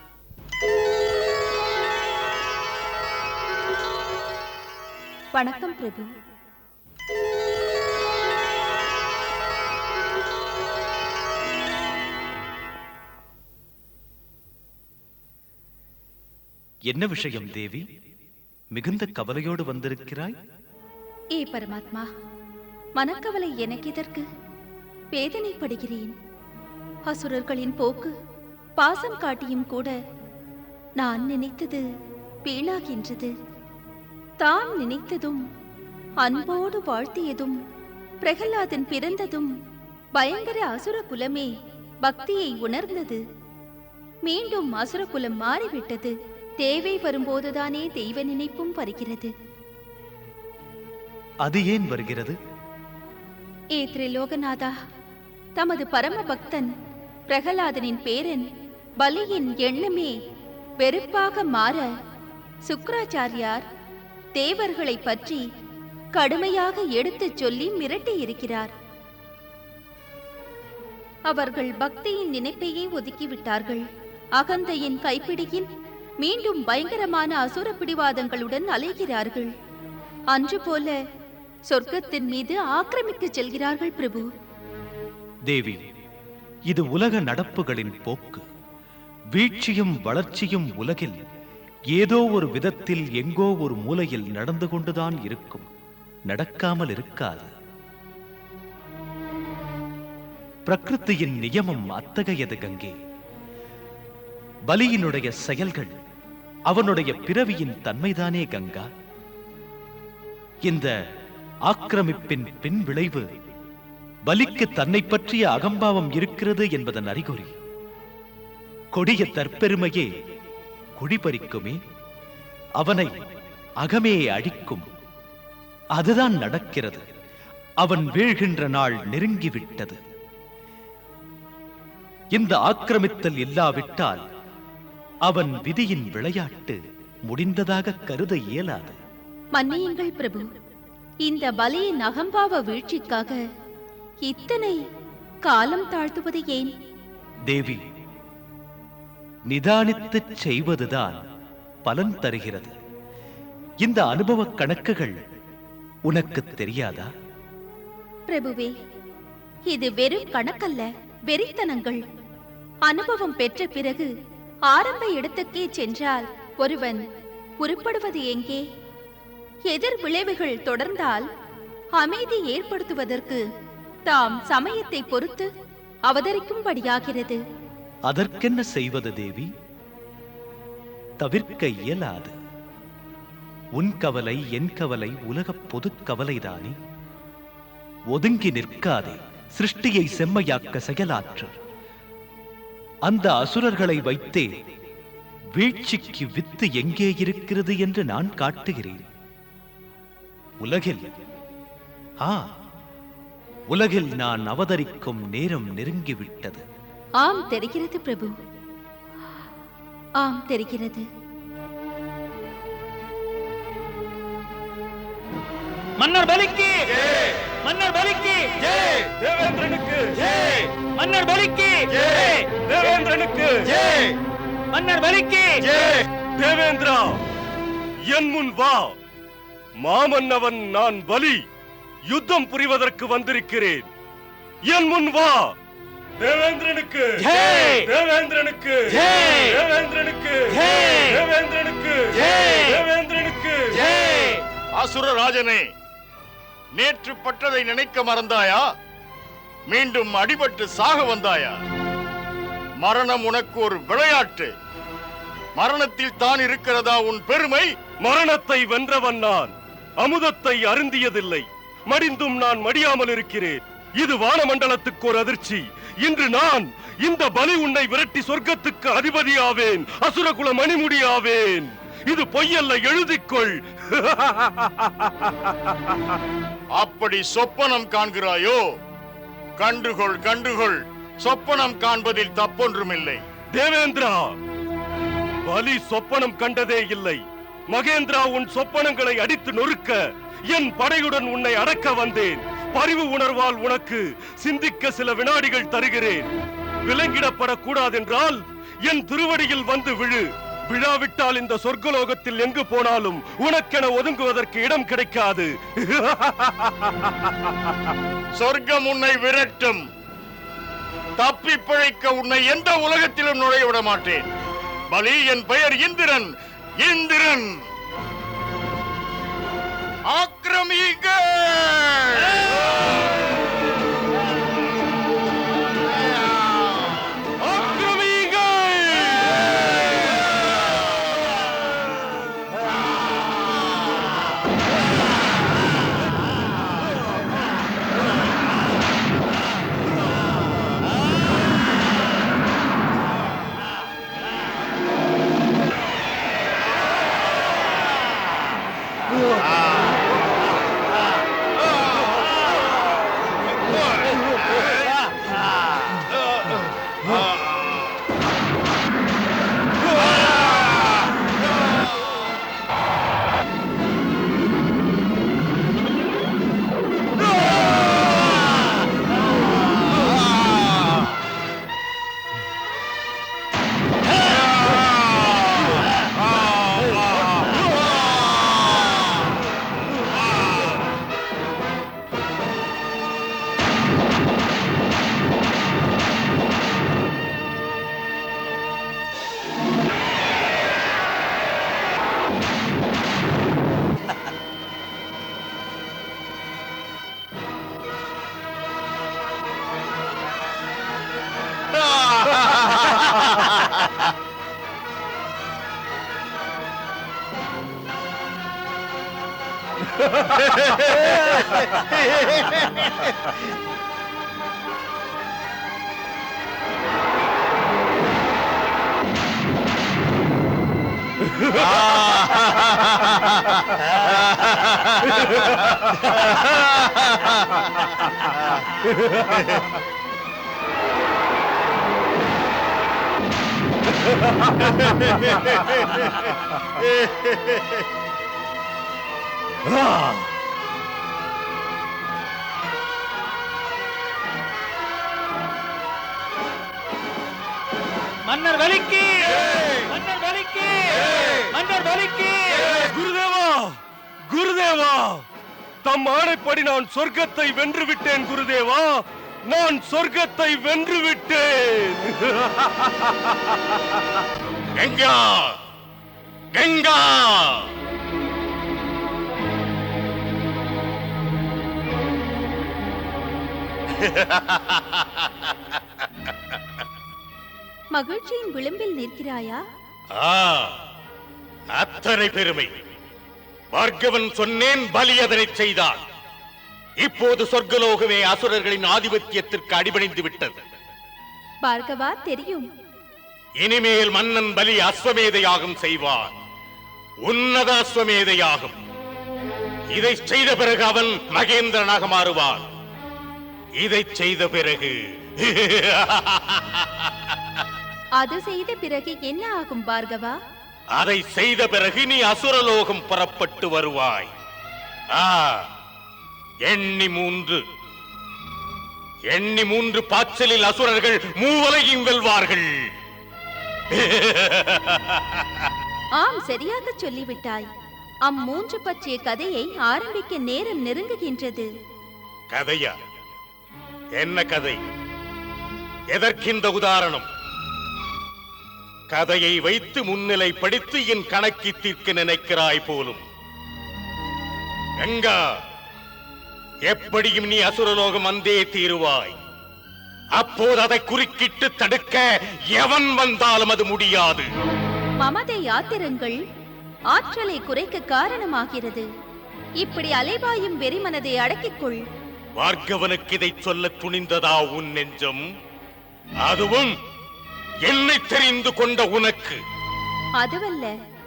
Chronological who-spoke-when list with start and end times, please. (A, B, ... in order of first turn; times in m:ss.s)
0:05.3-0:06.1 A
0:16.9-0:17.8 B
0:18.7-0:20.3 B
0:21.3-0:22.1 A
0:23.0-0:24.2 A
0:25.1-0:26.1 A
0:27.1-0:28.1 A
0:28.8-0:29.9 A
0:31.0-0:31.8 A
0:32.4-0:33.3 A
0:34.4-0:35.4 A
0:36.2-0:37.6 A
0:38.2-0:39.5 A
0:40.1-0:41.5 A
0:42.0-0:43.2 A
0:44.2-0:49.3 A
0:51.4-0:52.4 B
0:53.7-0:54.7 A
0:55.6-0:56.7 A
0:57.3-0:58.4 A
0:59.0-1:00.1 A
1:00.8-1:01.9 A
1:02.7-1:03.6 A
1:04.3-1:05.4 A
1:06.1-1:08.7 A
1:11.3-1:13.8 A
1:14.4-1:15.7 A
1:16.2-1:19.5 A
1:20.3-1:21.0 A
1:21.7-1:24.2 A
1:25.5-1:25.8 B
1:26.7-1:28.4 B
1:29.3-1:31.2 B
1:31.9-1:35.7 B
1:36.3-1:37.5 B
1:40.7-1:42.9 B
1:44.7-1:45.9 B
1:46.7-1:48.8 B
1:50.7-1:50.9 B
1:51.7-1:53.2 B
1:54.3-1:57.5 B
1:58.9-2:00.1 B
2:01.0-2:01.8 B
2:02.8-2:03.1 B
2:03.8-2:04.8 B
2:06.0-2:07.0 B
2:07.8-2:10.0 B
2:12.3-2:14.2 B
2:15.3-2:19.0 B
2:19.5-2:20.4 A
2:21.2-2:23.4 A
2:24.2-2:24.8 A
2:25.4-2:26.7 A
2:27.5-2:27.8 B
2:29.5-2:31.2 B
2:31.8-2:32.7 B
2:33.8-2:35.2 B
2:36.1-2:37.1 B
2:38.3-2:38.7 A
2:39.7-2:42.0 A
2:42.8-2:44.1 A
2:44.7-2:47.0 A
2:47.6-2:48.6 A
2:49.7-2:51.2 A
2:52.0-2:53.4 A
2:54.0-2:55.5 A
2:56.1-2:57.4 A
2:58.1-2:59.5 B
3:01.2-3:02.3 B
3:03.8-3:06.7 B
3:08.1-3:11.6 B
3:13.1-3:14.5 B
3:15.6-3:19.0 B
3:20.6-3:21.1 B
3:23.7-3:26.6 B
3:27.2-3:28.3 A
3:30.2-3:31.0 A
3:36.0-3:38.7 C
3:38.8-3:40.6 D
3:40.8-3:42.5 C
3:42.6-3:44.1 D
3:44.7-3:45.7 C
3:46.4-3:47.2 D
3:48.1-3:49.0 D
3:49.8-3:51.4 D
3:52.1-3:53.9 D
3:54.7-3:55.5 D
3:56.2-4:04.1 D
4:04.7-4:05.7 E
4:06.7-4:08.7 E
4:09.7-4:11.6 E
4:12.8-4:14.5 E
4:15.6-4:17.7 E
4:18.0-4:35.9 D
4:36.8-4:38.6 E
4:39.6-4:43.2 E
4:43.5-4:44.4 D
4:45.5-4:56.3 D
4:56.8-5:07.3 D
5:08.4-5:09.8 E
5:11.2-5:14.3 E
5:14.9-5:16.3 E
5:16.8-5:17.5 E
5:20.1-5:22.6 E
5:27.4-5:29.4 D
7:14.6-7:15.3 E
7:16.7-7:17.8 E
7:28.2-7:32.7 C
7:32.7-7:33.8 D
7:34.3-7:35.2 D
7:35.8-7:43.8 D
7:44.8-7:45.5 F
7:46.5-7:47.7 F
7:54.0-7:55.5 F
7:57.9-7:59.6 A
8:00.2-8:00.7 F
8:01.7-8:02.7 F
8:03.7-8:06.0 F
8:07.0-8:10.6 F
8:11.6-8:12.6 A
8:13.6-8:16.3 F
8:17.2-8:18.8 F
8:19.9-8:22.6 F
8:23.8-8:27.1 F
8:28.2-8:30.4 A
8:30.9-8:34.3 F
8:35.1-8:35.6 F
8:36.6-8:37.6 F
8:39.3-8:42.7 F
8:44.0-8:45.4 F
8:46.2-8:47.6 A
8:48.2-8:51.7 A
8:52.5-8:53.0 F
8:54.2-8:54.8 F
8:56.1-8:57.2 F
8:59.1-9:03.2 F
9:05.0-9:05.4 F
9:06.9-9:09.4 F
9:10.4-9:14.5 F
9:15.2-9:16.4 A
9:17.1-9:19.1 A
9:19.8-9:22.0 A
9:22.6-9:25.5 F
9:26.4-9:26.9 F
9:27.9-9:29.6 F
9:30.4-9:30.9 A